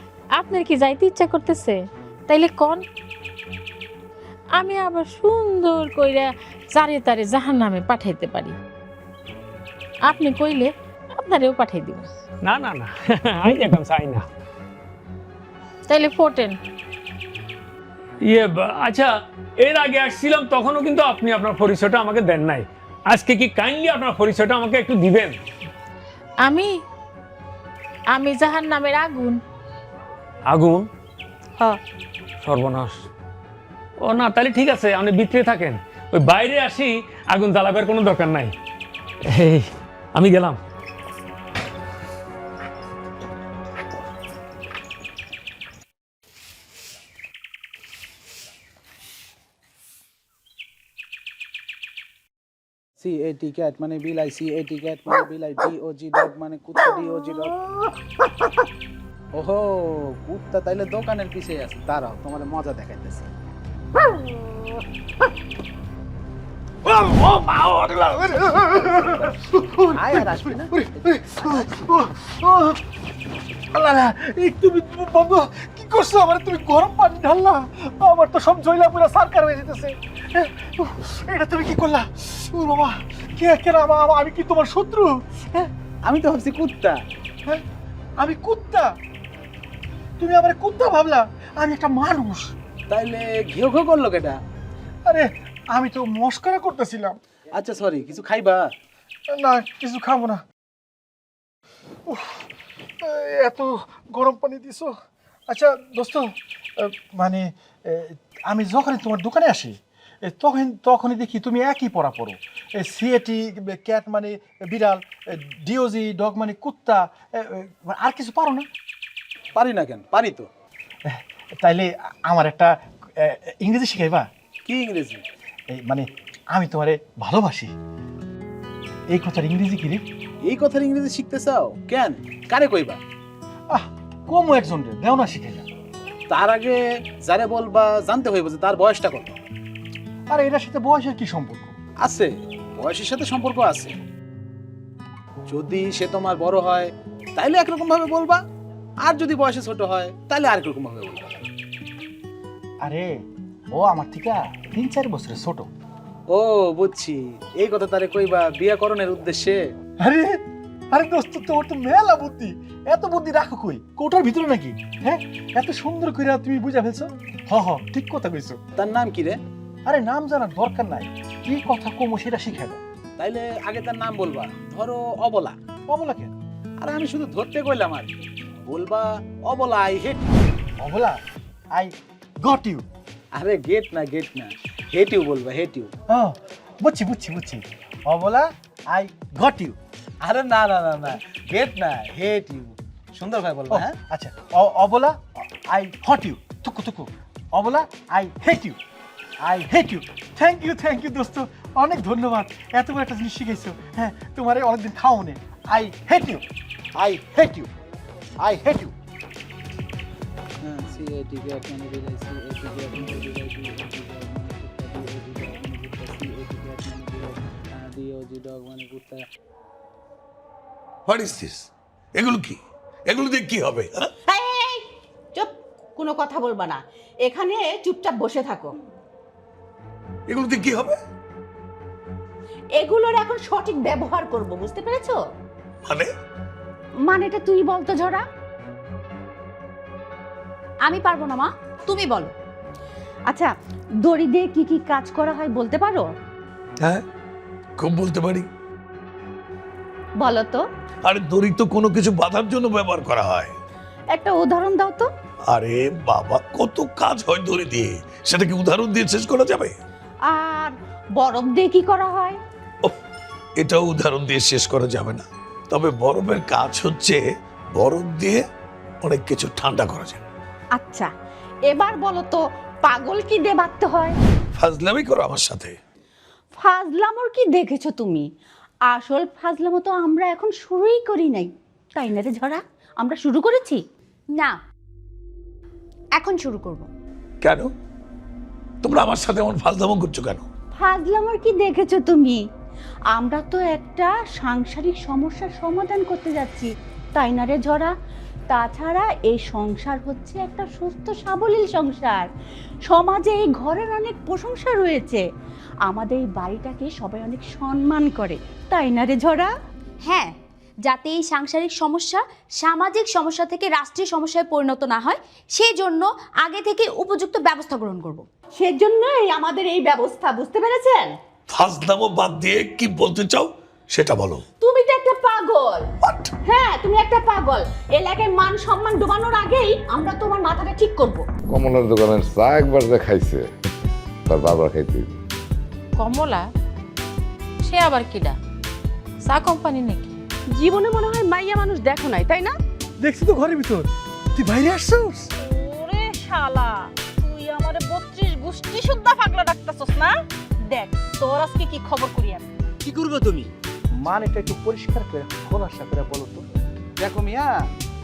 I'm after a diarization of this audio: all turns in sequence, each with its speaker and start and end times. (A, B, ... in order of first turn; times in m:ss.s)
0:00.3-0:02.8 A
0:04.6-0:08.5 A
0:10.0-0:12.1 A
0:12.4-0:14.2 B
0:15.8-0:16.6 A
0:18.3-0:19.1 B
0:19.6-0:25.4 B
0:26.4-0:26.7 A
0:28.1-0:29.4 A
0:30.5-0:30.8 B
0:32.4-0:33.1 B
0:34.0-0:38.5 B
0:39.3-0:40.6 B
0:53.0-0:57.6 C
0:59.3-1:03.3 C
1:06.8-1:09.3 C
1:08.8-1:12.8 D
1:09.9-1:11.8 C
1:13.7-1:25.7 D
1:26.0-1:27.0 C
1:28.2-1:28.9 D
1:30.2-1:32.5 D
1:32.9-1:34.4 C
1:35.1-1:37.2 D
1:37.5-1:38.7 C
1:39.4-1:40.4 D
1:42.1-1:42.4 D
1:43.0-1:44.9 D
1:45.5-1:46.2 D
1:46.8-1:49.7 D
1:50.3-1:58.6 D
1:59.5-2:00.5 C
2:01.1-2:02.7 D
2:03.2-2:04.2 D
2:04.6-2:05.2 C
2:05.7-2:07.7 D
2:09.1-2:10.0 D
2:10.4-2:13.0 C
2:13.7-2:15.6 D
2:16.3-2:19.3 C
2:20.3-2:21.7 D
2:22.0-2:23.9 C
2:25.5-2:28.4 C
2:29.0-2:31.3 C
2:33.8-2:35.7 D
2:36.3-2:39.6 C
2:40.9-2:48.6 D
2:48.8-2:49.4 C
2:49.8-2:52.8 D
2:53.2-2:55.6 C
2:55.9-2:56.3 D
2:56.8-2:58.1 C
2:58.7-3:00.4 C
3:00.8-3:01.2 D
3:02.4-3:02.8 D
3:03.3-3:05.9 C
3:06.8-3:09.8 D
3:10.2-3:14.0 C
3:13.7-3:18.8 D
3:19.4-3:26.4 D
3:27.0-3:27.7 D
3:28.4-3:28.9 D
3:30.6-3:39.2 C
3:41.1-3:42.6 E
3:43.1-3:44.0 E
3:44.3-3:44.8 F
3:45.3-3:48.7 F
3:50.3-3:51.0 E
3:52.8-3:55.2 F
3:57.0-3:58.2 F
4:00.8-4:02.3 G
4:04.0-4:06.1 F
4:07.8-4:08.4 E
4:10.2-4:10.6 F
4:11.0-4:13.5 E
4:14.1-4:15.1 F
4:15.5-4:19.7 E
4:20.3-4:22.4 F
4:23.6-4:28.4 E
4:29.0-4:30.2 E
4:30.7-4:31.1 F
4:31.7-4:34.1 F
4:34.6-4:35.8 E
4:36.6-4:38.2 F
4:38.9-4:43.8 F
4:46.2-4:46.9 G
4:47.4-4:47.7 E
4:48.8-4:50.4 E
4:50.8-4:52.4 F
4:53.1-4:57.9 F
4:58.5-5:02.3 F
5:02.9-5:05.2 F
5:05.9-5:09.5 F
5:10.1-5:10.3 G
5:10.8-5:18.2 G
5:18.6-5:21.1 F
5:21.5-5:24.4 E
5:24.6-5:25.8 F
5:26.0-5:26.3 E
5:26.4-5:31.2 F
5:31.5-5:33.5 H
5:34.3-5:35.2 H
5:36.0-5:36.4 A
5:37.6-5:38.4 A
5:39.2-5:40.2 A
5:40.5-5:42.5 I
5:43.0-5:45.3 D
5:45.4-5:52.4 J
5:52.8-5:53.5 C
5:54.0-5:56.4 D
5:57.0-5:57.5 C